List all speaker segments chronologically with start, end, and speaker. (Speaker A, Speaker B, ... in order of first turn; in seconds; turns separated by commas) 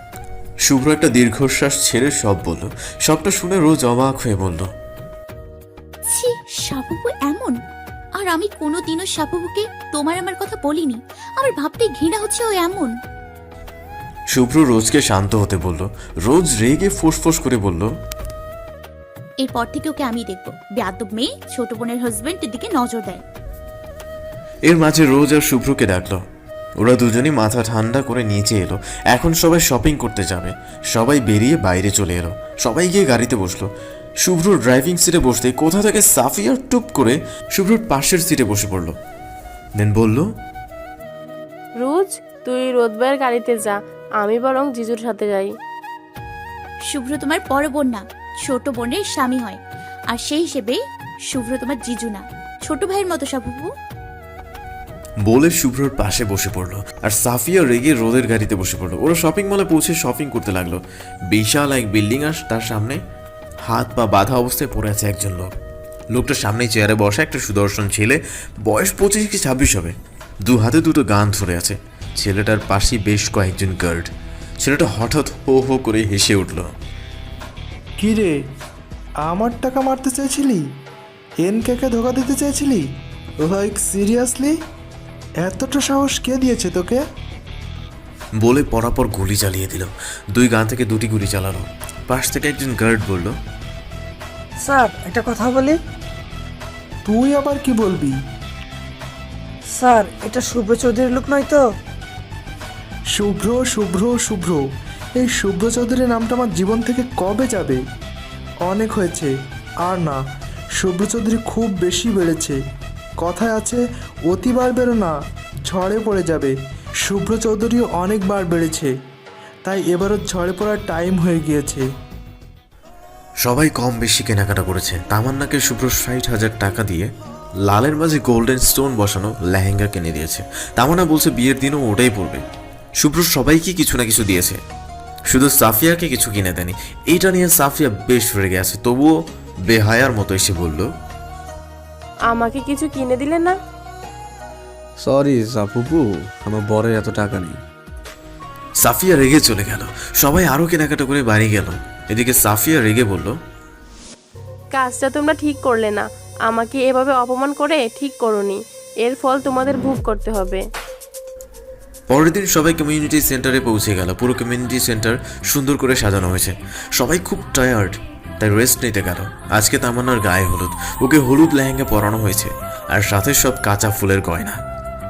Speaker A: 0.7-4.7, Speaker B: 6.1-7.6, Speaker B: 8.2-12.9, Speaker A: 14.3-17.9, Speaker B: 19.4-23.2, Speaker A: 24.7-26.2, Speaker A: 26.8-33.7, Speaker A: 34.2-38.9, Speaker A: 39.8-40.2, Speaker C: 41.8-45.5, Speaker B: 46.9-49.6, Speaker B: 50.1-50.8, Speaker B: 51.3-53.7, Speaker A: 55.3-63.0, Speaker A: 63.6-65.5, Speaker A: 66.1-69.9, Speaker A: 70.5-74.1, Speaker A: 74.6-76.7, Speaker D: 78.0-78.3, Speaker D: 79.2-80.6, Speaker D: 81.4-82.8, Speaker D: 83.5-84.5, Speaker D: 85.4-87.0, Speaker A: 88.4-93.3, Speaker E: 94.6-95.8, Speaker D: 97.0-98.1, Speaker E: 99.7-101.7, Speaker D: 103.1-104.6, Speaker D: 105.2-107.8, Speaker D: 108.7-109.3, Speaker D: 109.8-110.1, Speaker D: 110.8-112.5, Speaker D: 113.2-113.8, Speaker D: 114.3-115.1, Speaker D: 115.7-116.5, Speaker D: 117.1-118.9, Speaker D: 119.6-121.8, Speaker A: 123.4-127.1, Speaker A: 127.7-132.4, Speaker A: 133.0-134.6, Speaker A: 135.3-139.1, Speaker A: 139.7-140.9, Speaker C: 142.3-143.6, Speaker F: 145.0-147.6, Speaker A: 148.8-153.3, Speaker C: 154.7-160.6, Speaker A: 162.1-174.6